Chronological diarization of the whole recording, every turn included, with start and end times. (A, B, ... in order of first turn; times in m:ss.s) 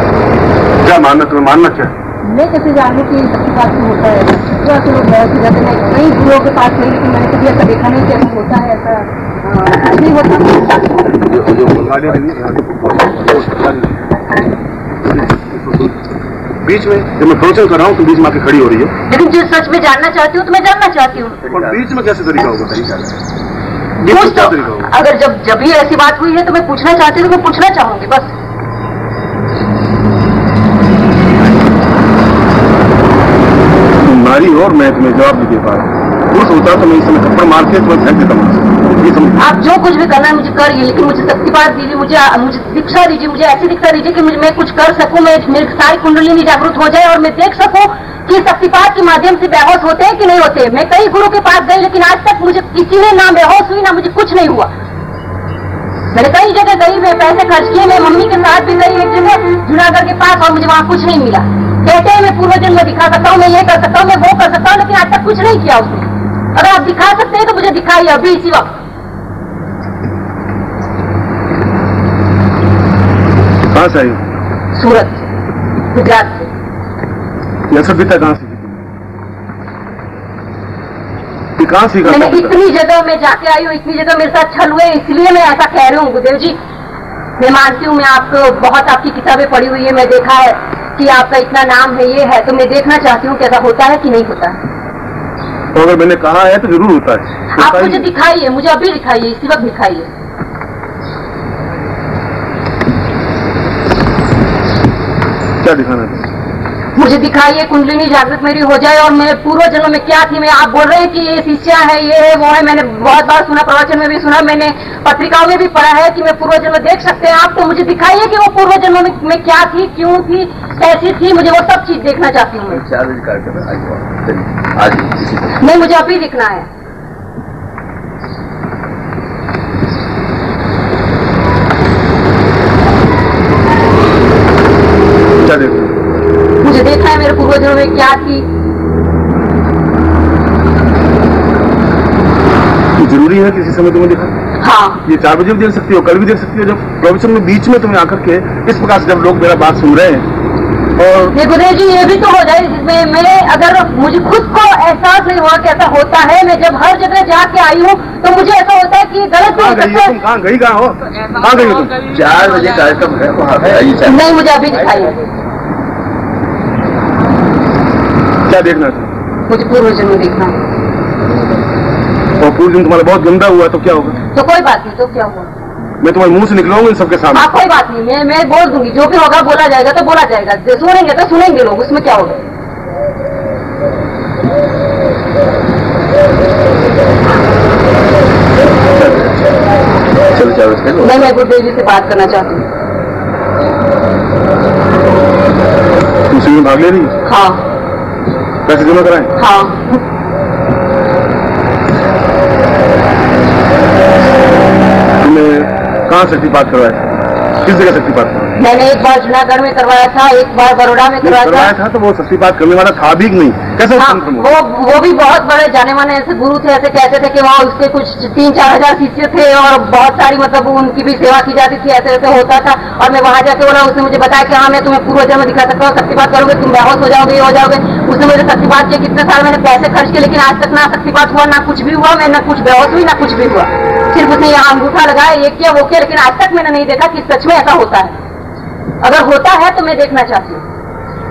0:00.8-0:01.9 A
0:02.2-0:10.7 B
0:11.3-0:14.0 A
0:15.1-0:15.9 A
0:16.6-0:18.9 A
0:19.1-0:21.4 B
0:21.4-0:21.8 C
0:21.5-0:23.2 A
0:24.0-0:24.9 A
0:24.1-0:28.3 B
0:34.0-0:39.4 A
0:39.4-0:54.7 B
0:56.1-1:08.8 B
1:13.7-1:14.2 A
1:14.8-1:15.3 B
1:15.9-1:16.5 B
1:17.7-1:18.8 A
1:21.6-1:22.6 A
1:22.0-1:26.6 B
1:27.4-1:34.6 B
1:35.7-1:38.1 A
1:37.6-1:40.1 B
1:45.6-1:46.3 A
1:47.0-2:02.8 B
2:02.7-2:05.6 C
2:05.6-2:06.7 B
2:15.4-2:16.0 A
2:16.6-2:18.5 B
2:23.0-2:24.3 A
2:24.6-2:25.0 B
2:25.0-2:30.3 A
2:31.0-2:31.3 A
2:31.3-2:40.1 B
2:39.5-2:42.0 A
2:42.0-2:44.3 C
2:44.0-2:45.2 B
2:48.5-2:49.1 A
2:49.5-2:50.6 B
2:52.4-2:54.2 A
2:54.3-2:55.5 B
2:56.0-2:57.5 A
2:57.3-3:02.4 B
3:09.0-3:09.4 C
3:10.3-3:11.2 C
3:11.0-3:12.6 B
3:16.3-3:17.1 A
3:17.2-3:17.6 B
3:18.7-3:19.3 A
3:19.4-3:19.9 B
3:25.2-3:27.1 A
3:27.6-3:28.5 A
3:28.6-3:31.7 B
3:31.2-3:34.5 A
3:34.0-3:58.2 B
3:59.0-4:00.6 B